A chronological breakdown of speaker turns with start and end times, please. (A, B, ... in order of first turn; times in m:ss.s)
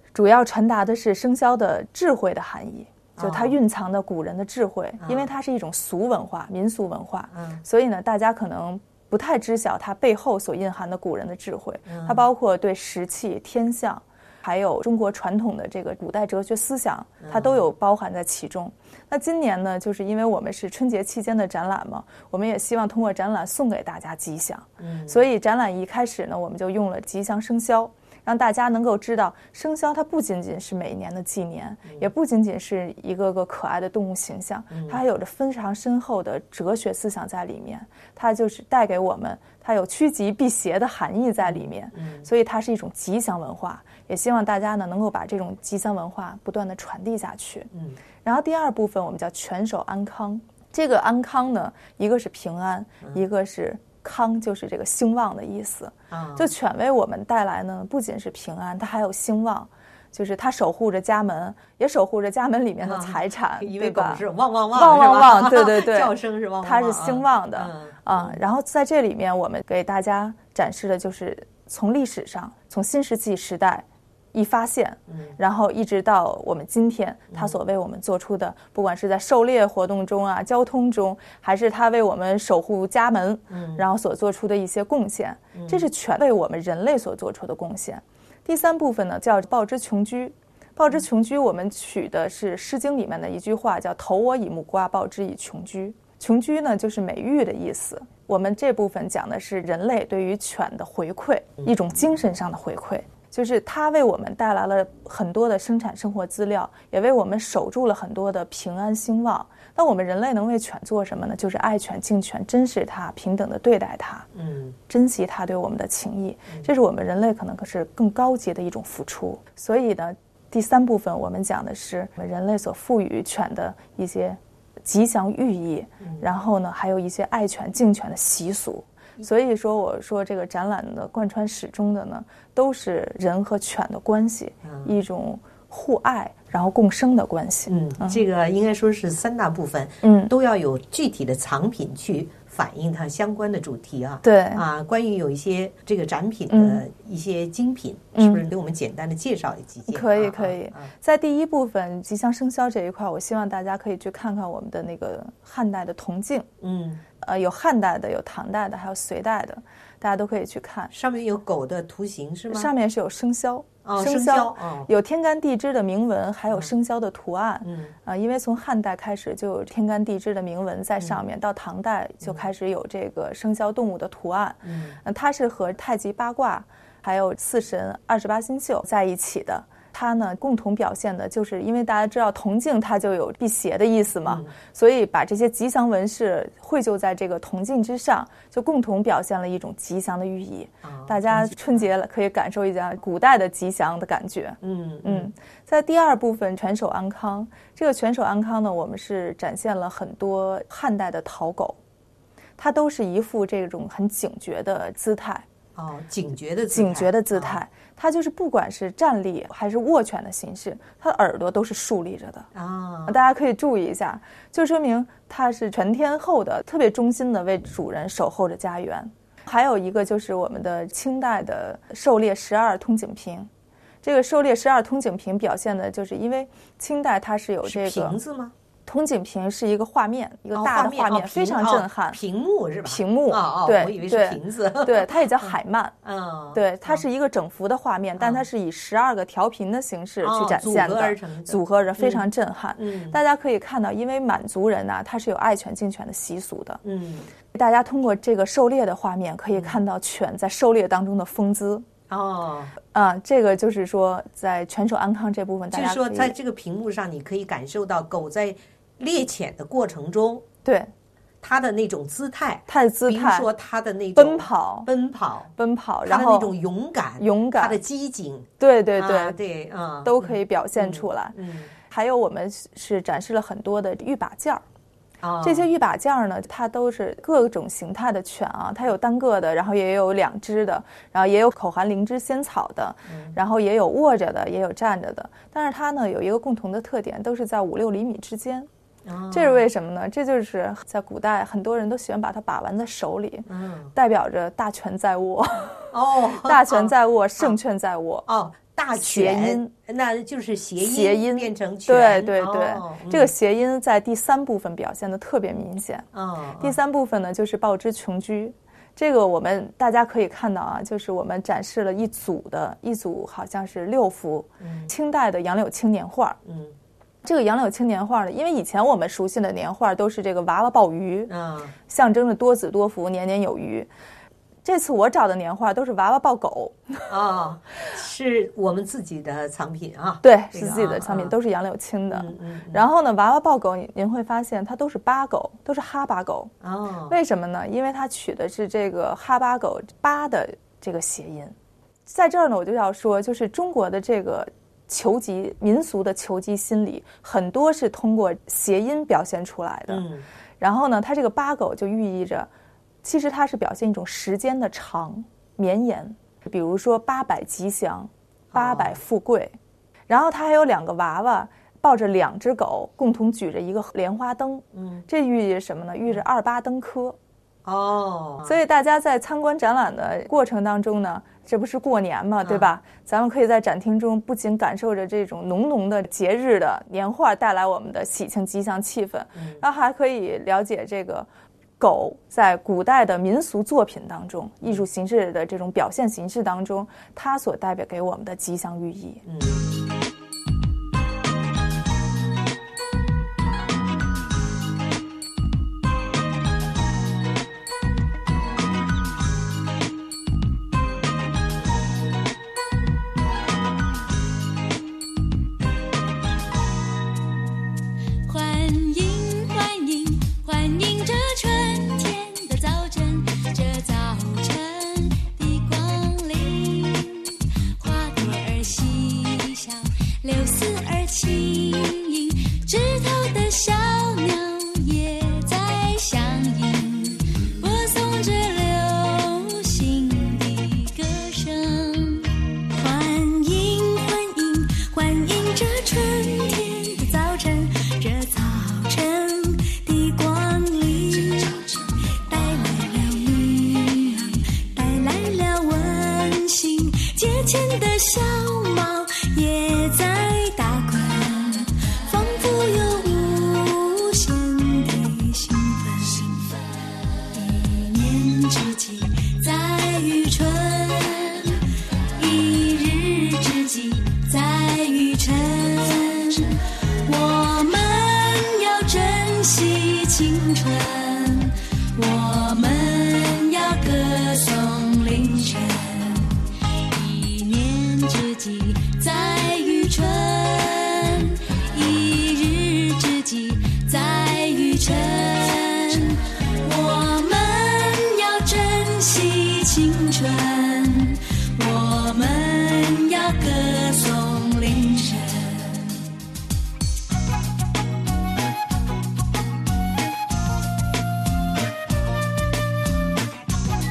0:00.1-0:47.7 A
0:03.2-0:03.6 B
0:05.0-0:05.3 B
0:07.3-0:07.6 B
0:11.9-0:12.2 B
0:17.2-0:17.6 B
0:24.8-0:25.2 B
0:34.7-0:35.0 B
0:41.4-0:42.3 B
0:47.7-0:48.0 B
0:48.2-1:54.3 A
0:56.1-0:56.5 B
1:02.8-1:08.4 B
1:15.1-1:15.4 B
1:23.5-1:23.8 B
1:25.5-1:25.9 B
1:54.3-1:54.8 B
1:54.9-2:18.2 A
2:14.6-2:14.9 B
2:17.7-2:30.9 B
2:20.0-2:20.3 A
2:24.2-2:24.6 A
2:26.5-2:26.8 A
2:28.2-2:28.4 A
2:29.8-2:36.5 A
2:36.6-2:37.0 B
2:37.2-2:40.9 A
2:40.9-2:42.7 B
2:42.5-3:21.8 A
2:43.8-2:44.9 B
2:47.6-2:47.9 B
2:54.6-2:55.0 B
3:04.2-3:04.5 B
3:10.8-3:11.9 B
3:14.6-3:15.3 B
3:22.6-3:25.4 A
3:25.8-3:27.6 B
3:26.7-3:32.5 A
3:32.5-3:33.3 B
3:33.0-3:43.5 A
3:44.0-3:48.2 A
3:47.6-3:48.5 B
3:48.9-3:52.2 A
3:50.5-3:57.0 B
3:52.8-3:55.9 A
3:56.5-4:06.8 A
3:58.2-3:58.4 B
4:00.2-4:03.2 B
4:06.8-4:07.3 B
4:07.5-4:11.8 A
4:09.5-4:09.8 B
4:12.1-4:12.7 B
4:12.9-4:16.3 A
4:15.7-4:20.4 B
4:20.6-4:20.9 A
4:21.4-4:25.5 B
4:22.7-4:23.5 A
4:24.1-4:24.9 A
4:25.6-4:26.5 A
4:26.0-4:31.7 B
4:27.2-4:27.8 A
4:28.6-4:29.4 A
4:30.0-4:31.4 A
4:31.9-4:34.6 A
4:35.2-4:35.7 B
4:35.4-4:48.7 A
4:43.1-4:43.4 B
4:49.0-4:49.6 B
4:49.3-4:58.3 A
4:53.5-4:53.9 B
4:55.9-4:57.6 B
4:58.3-5:03.3 B
4:58.9-4:59.7 A
5:00.8-5:06.1 A
5:06.1-5:06.8 B
5:06.6-5:16.4 A
5:14.6-5:14.9 B
5:16.4-5:16.7 B
5:17.2-5:21.3 A
5:21.3-5:21.7 B
5:21.9-5:23.9 A
5:24.6-5:26.8 A
5:27.1-5:31.4 B
5:30.2-5:36.5 A
5:32.1-5:32.8 B
5:36.6-5:37.2 B
5:37.1-5:41.5 A
5:42.0-5:50.1 A
5:49.9-5:50.2 B
5:50.6-5:52.5 A
5:53.0-5:59.5 A
5:58.5-5:59.0 B
6:00.1-6:07.2 A
6:04.7-6:05.0 B
6:07.6-6:08.6 B
6:08.4-6:29.2 A
6:12.4-6:12.7 B
6:19.3-6:19.6 B
6:29.2-6:29.7 B
6:48.2-7:36.5 C
7:37.3-7:41.6 C
7:42.2-8:16.0 C